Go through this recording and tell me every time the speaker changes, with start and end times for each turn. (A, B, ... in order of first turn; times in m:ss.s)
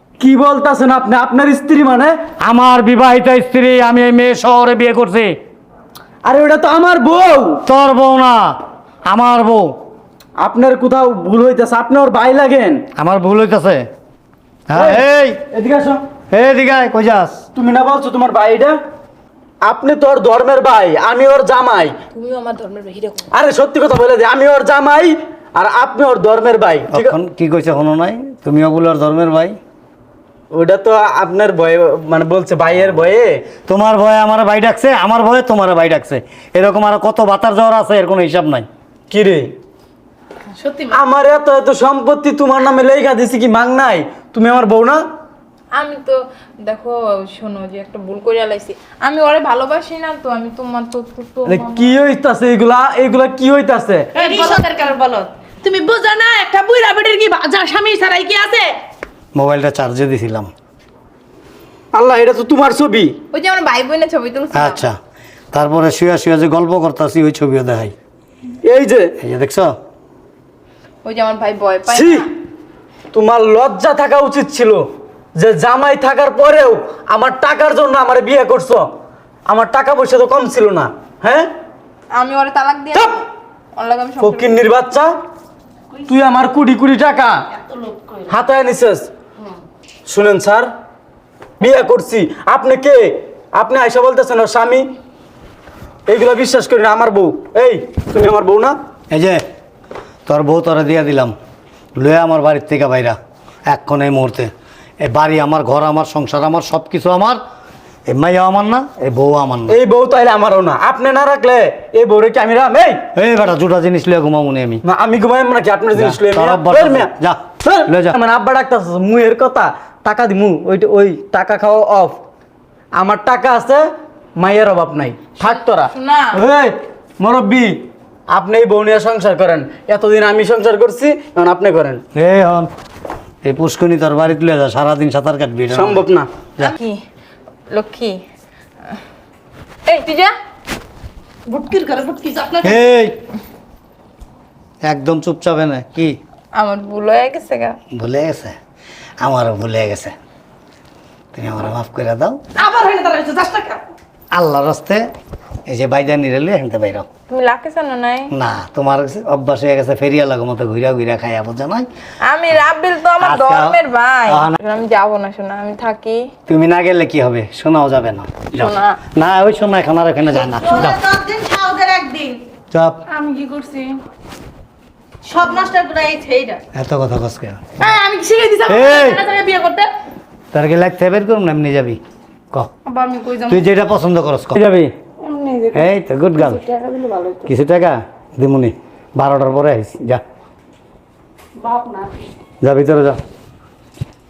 0:00.2-0:02.2 A
0:02.4-0:05.4 B
0:06.2-0:07.6 A
0:07.7-0:09.8 B
0:10.4-0:12.8 A
0:13.0-0:13.9 B
0:14.7-0:15.4 B
0:14.7-0:16.0 A
0:16.3-0:17.4 B
0:17.5-0:18.8 A
0:19.6-0:22.0 A
0:22.1-0:23.3 C
0:23.3-0:27.2 A
0:26.9-0:29.6 B
0:30.5-0:33.5 A
0:33.7-0:38.7 B
0:39.1-0:39.5 A
0:40.6-0:41.0 D
0:40.9-0:45.0 A
0:45.8-0:52.0 C
0:51.5-0:54.2 A
0:54.2-0:58.8 D
0:54.2-0:54.6 C
0:59.4-1:00.5 B
1:01.9-1:03.2 A
1:03.3-1:04.8 C
1:04.5-1:05.0 B
1:05.5-1:07.9 B
1:08.6-1:09.1 A
1:09.2-1:09.7 B
1:11.0-1:12.3 C
1:11.9-1:12.3 A
1:13.1-1:18.9 A
1:19.5-1:21.5 A
1:22.1-1:23.2 C
1:22.9-1:23.2 A
1:23.8-1:24.6 C
1:24.2-1:25.1 A
1:26.1-1:27.4 A
1:27.5-1:28.4 D
1:28.3-1:29.1 A
1:30.1-1:30.7 A
1:31.6-1:34.9 A
1:36.1-1:38.8 A
1:39.1-1:39.4 B
1:40.3-1:41.3 B
1:42.0-1:47.4 B
1:48.1-1:49.8 B
1:49.7-1:53.0 A
1:53.2-1:54.8 B
1:54.8-2:02.2 A
1:55.9-1:58.2 B
2:03.0-2:12.0 A
2:05.4-2:06.4 C
2:12.2-2:12.7 B
2:13.4-2:16.0 B
2:15.7-2:16.3 A
2:16.6-2:17.0 C
2:17.7-2:18.2 C
2:19.9-2:20.3 C
2:21.5-2:22.8 D
2:22.6-2:23.2 B
2:24.8-2:26.2 B
2:26.6-2:27.8 C
2:27.9-2:28.6 B
2:29.2-2:30.2 B
2:31.3-2:32.4 B
2:32.6-2:33.8 D
2:34.3-2:35.1 B
2:35.7-2:37.1 B
2:37.3-2:38.3 C
2:38.3-2:41.9 B
2:42.2-2:46.3 C
2:43.2-2:44.6 B
2:46.5-2:51.0 B
2:48.5-2:49.0 C
2:50.3-2:52.4 E
2:52.7-2:53.0 B
2:53.1-2:54.0 D
2:55.2-2:56.6 E
2:56.7-2:57.8 B
2:57.8-2:59.9 D
2:58.7-2:59.2 B
3:00.5-3:02.0 B
3:02.8-3:03.6 D
3:03.5-3:04.9 B
3:05.2-3:07.5 D
3:05.7-3:06.6 B
3:07.4-3:10.2 B
3:11.6-3:12.2 D
3:12.6-3:13.2 B